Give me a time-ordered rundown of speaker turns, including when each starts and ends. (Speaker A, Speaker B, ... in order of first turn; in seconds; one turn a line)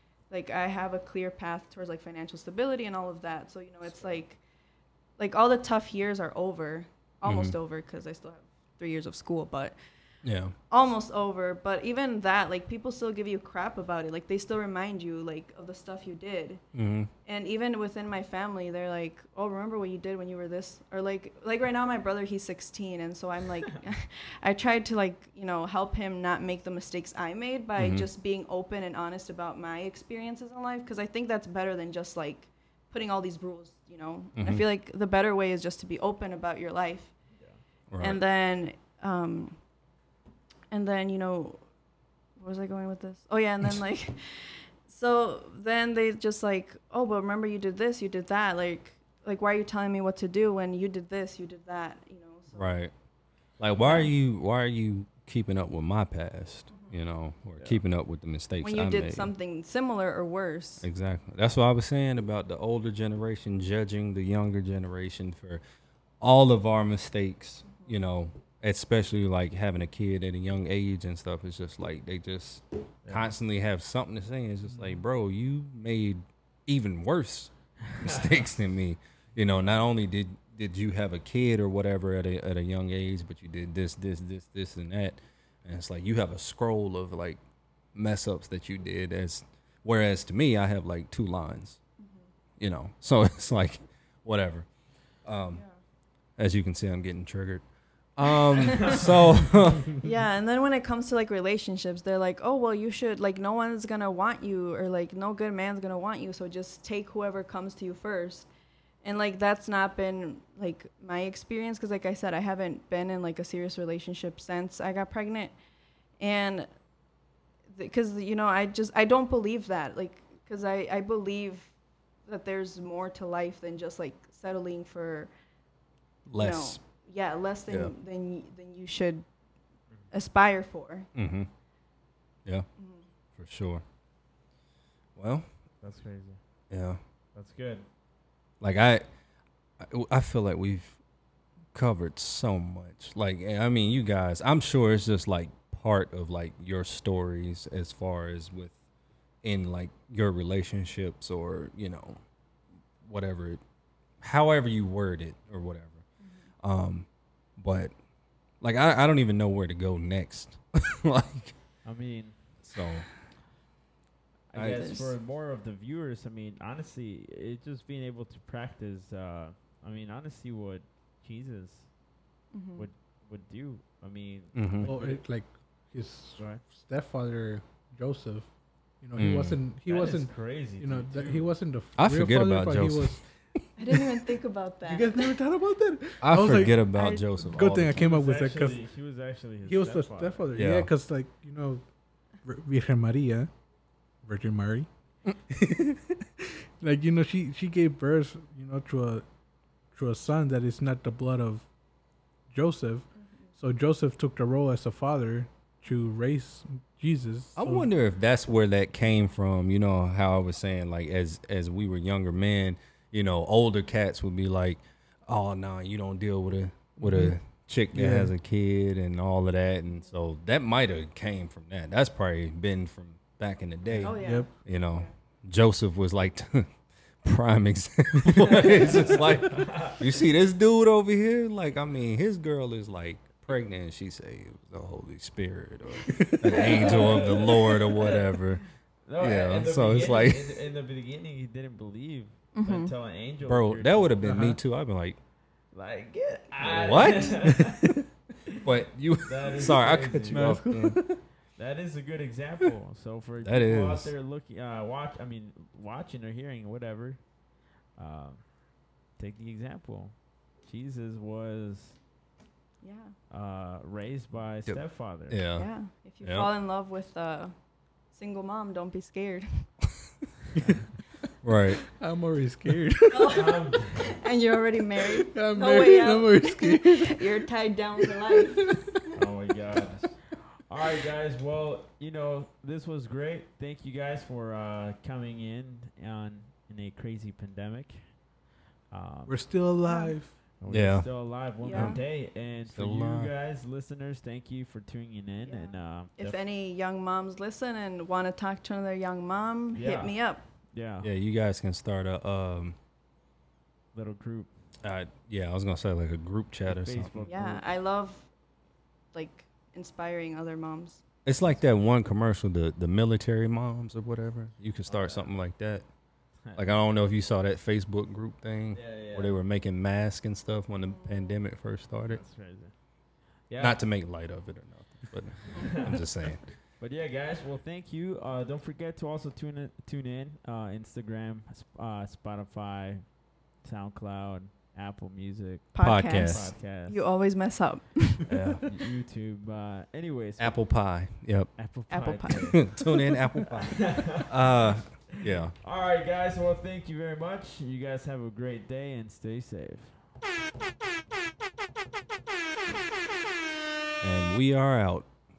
Speaker A: 0.3-4.4
Speaker B: 3.9-4.2
Speaker A: 5.2-9.8
Speaker C: 7.2-7.6
Speaker C: 10.2-10.5
Speaker A: 10.7-16.6
Speaker C: 16.7-17.1
Speaker A: 17.2-37.1
Speaker C: 27.8-28.1
Speaker C: 34.4-34.6
Speaker B: 37.3-37.6
Speaker C: 37.9-38.2
Speaker A: 38.0-39.6
Speaker A: 40.7-41.6
Speaker A: 42.4-52.8
Speaker C: 52.5-52.9
Speaker C: 53.6-59.3
Speaker A: 53.8-54.1
Speaker A: 56.7-57.0
Speaker A: 58.6-60.9
Speaker C: 60.8-65.6
Speaker C: 66.2-87.4
Speaker B: 73.0-73.3
Speaker D: 74.7-75.0
Speaker C: 87.9-91.8
Speaker A: 92.0-92.3
Speaker C: 92.6-95.7
Speaker A: 95.5-95.8
Speaker C: 96.4-100.0
Speaker B: 98.8-99.1
Speaker A: 99.9-108.5
Speaker A: 109.0-115.5
Speaker A: 116.2-116.7
Speaker A: 117.7-121.7
Speaker A: 122.3-125.3
Speaker C: 126.3-126.8
Speaker A: 126.4-129.3
Speaker C: 127.7-127.9
Speaker A: 130.1-131.1
Speaker C: 131.2-131.5
Speaker A: 132.8-133.1
Speaker C: 133.4-133.8
Speaker C: 135.2-135.5
Speaker B: 135.8-136.4
Speaker C: 136.7-137.0
Speaker B: 137.3-137.9
Speaker C: 138.6-139.0
Speaker C: 139.8-141.0
Speaker C: 141.7-148.8
Speaker C: 149.4-152.2
Speaker C: 153.0-153.6
Speaker C: 154.2-156.1
Speaker A: 156.2-156.5
Speaker C: 156.6-157.9
Speaker C: 158.6-161.6
Speaker B: 161.8-162.6
Speaker C: 162.6-163.2
Speaker B: 164.5-172.0
Speaker C: 164.5-164.9
Speaker A: 164.7-165.1
Speaker A: 172.5-172.9
Speaker B: 172.8-175.2
Speaker C: 174.5-174.9
Speaker D: 174.8-183.4
Speaker B: 176.4-176.6
Speaker C: 179.2-179.6
Speaker B: 179.9-181.6
Speaker C: 182.0-184.0
Speaker A: 183.8-185.3
Speaker D: 184.8-186.8
Speaker C: 186.2-188.1
Speaker A: 186.9-187.2
Speaker D: 187.4-188.8
Speaker B: 187.9-190.5
Speaker D: 189.7-191.8
Speaker C: 190.6-190.9
Speaker D: 192.4-193.5
Speaker D: 194.2-194.9
Speaker D: 195.5-199.2
Speaker D: 199.9-201.7
Speaker D: 202.5-207.9
Speaker A: 203.2-203.5
Speaker C: 207.6-240.6
Speaker D: 217.0-217.4
Speaker D: 217.9-218.3
Speaker A: 224.0-225.1
Speaker D: 224.1-224.5
Speaker B: 229.5-230.0
Speaker D: 236.0-237.3
Speaker B: 236.4-238.4
Speaker B: 239.1-244.6
Speaker A: 242.6-242.9
Speaker C: 243.4-245.2
Speaker B: 245.7-247.8
Speaker C: 246.6-247.7
Speaker C: 248.6-251.2
Speaker B: 249.2-250.7
Speaker D: 250.3-251.2
Speaker B: 251.5-257.4
Speaker C: 253.4-254.1
Speaker B: 257.9-262.0
Speaker A: 262.8-263.2
Speaker B: 263.3-265.4
Speaker C: 264.7-266.5
Speaker A: 265.6-269.9
Speaker B: 270.6-271.0
Speaker C: 271.4-271.8
Speaker D: 272.0-273.5
Speaker A: 273.1-278.8
Speaker B: 273.3-274.2
Speaker D: 275.3-277.3
Speaker D: 278.0-278.9
Speaker B: 279.1-288.3
Speaker B: 288.9-289.5
Speaker D: 289.3-290.4
Speaker A: 289.8-290.2
Speaker B: 290.6-296.4
Speaker C: 290.7-293.3
Speaker A: 291.6-292.0
Speaker A: 295.4-300.4
Speaker B: 299.7-301.1
Speaker C: 301.0-302.8
Speaker B: 303.9-304.6
Speaker C: 304.8-307.2
Speaker B: 306.7-307.7
Speaker A: 307.2-308.3
Speaker A: 309.1-311.0
Speaker C: 311.2-315.9
Speaker B: 314.9-315.3
Speaker B: 316.4-316.9
Speaker C: 316.5-322.3
Speaker B: 318.7-319.4
Speaker A: 320.8-321.4
Speaker B: 322.1-323.8
Speaker C: 323.6-326.6
Speaker A: 325.5-325.8
Speaker B: 325.5-337.0
Speaker A: 335.7-338.5
Speaker C: 335.8-336.6
Speaker C: 338.3-338.7
Speaker B: 338.7-340.7
Speaker C: 340.4-341.7
Speaker B: 341.6-342.8
Speaker A: 341.9-343.1
Speaker C: 342.6-345.6
Speaker B: 343.9-350.1
Speaker C: 354.0-355.1